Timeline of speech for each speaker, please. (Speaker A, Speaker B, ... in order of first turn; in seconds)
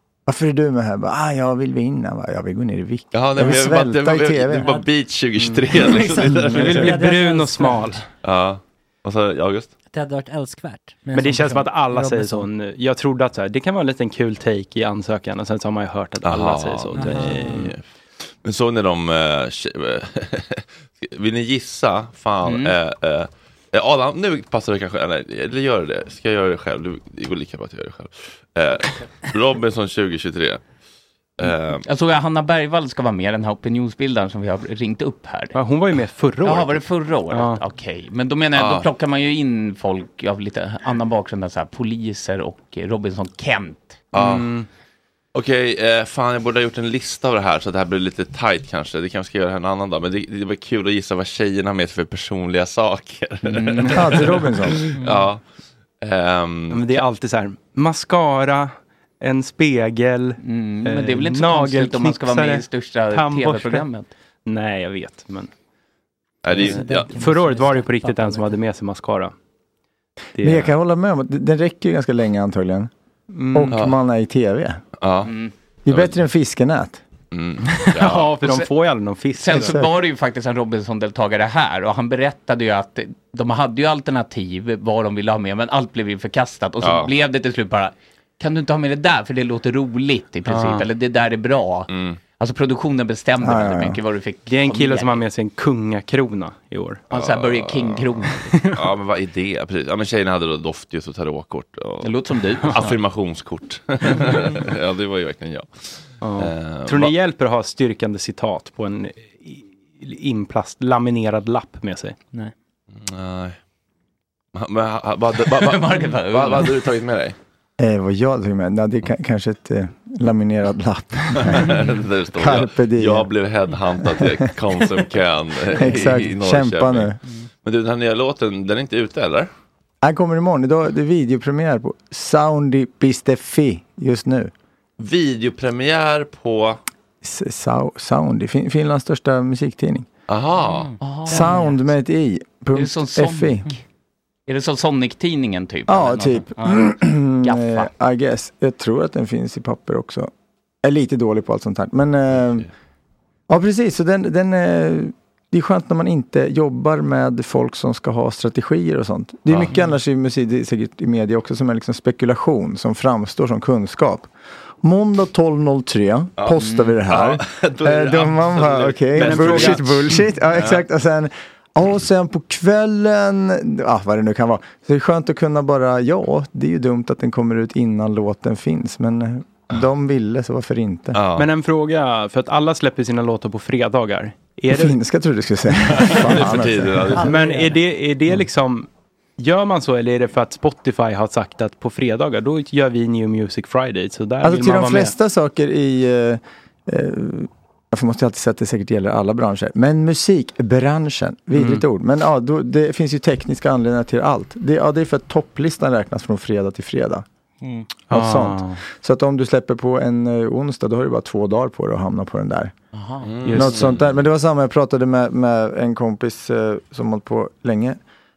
Speaker A: 0.2-4.8, 53.9-54.9, 70.4-72.9, 73.5-74.8, 75.8-77.0, 79.6-79.9, 93.4-94.0, 117.8-123.3, 124.0-124.5, 125.7-127.2, 130.0-134.5, 137.2-140.1, 141.3-143.6, 145.9-150.3, 150.8-152.7, 153.5-164.3, 164.8-181.2, 184.7-187.2, 194.4-207.2, 208.1-212.7, 213.5-218.0
Speaker B: 3.1-7.0, 8.2-9.7, 16.2-17.8, 18.4-30.6, 31.4-31.8, 38.5-38.9, 44.1-44.5, 45.3-55.4, 56.0-57.0, 66.4-67.1, 73.7-74.0, 75.0-75.3, 75.9-76.2, 77.3-78.4, 86.8-87.1, 91.9-92.2, 97.1-107.1, 113.0-113.6, 114.5-117.3, 121.4-127.1, 127.6-129.5, 135.0-136.8, 140.3-140.9, 166.4-170.8, 181.1-181.5, 185.9-187.3, 213.2-214.2
Speaker C: 5.4-8.0, 11.1-17.7, 35.5-37.6, 44.1-44.7, 56.7-63.9, 64.5-65.5, 66.5-69.3, 70.4-70.7, 73.3-73.8, 77.7-79.8, 90.5-90.9, 94.5-97.0, 98.5-98.8, 106.2-112.2, 169.1-170.2, 181.3-185.0, 187.1-195.1, 201.5-201.8, 208.1-208.8, 213.4-213.9
Speaker D: 5.8-8.0, 9.9-12.5, 16.9-17.7, 55.0-55.2, 66.5-68.6, 140.6-141.6
Speaker E: 22.4-22.7, 31.8-35.5, 36.4-44.0, 53.5-54.0, 60.4-64.1, 75.2-75.5, 79.4-95.2, 97.1-98.5, 102.0-103.0, 115.5-116.7, 141.0-141.7, 142.7-143.8, 144.5-147.9, 166.6-166.9, 212.9-213.3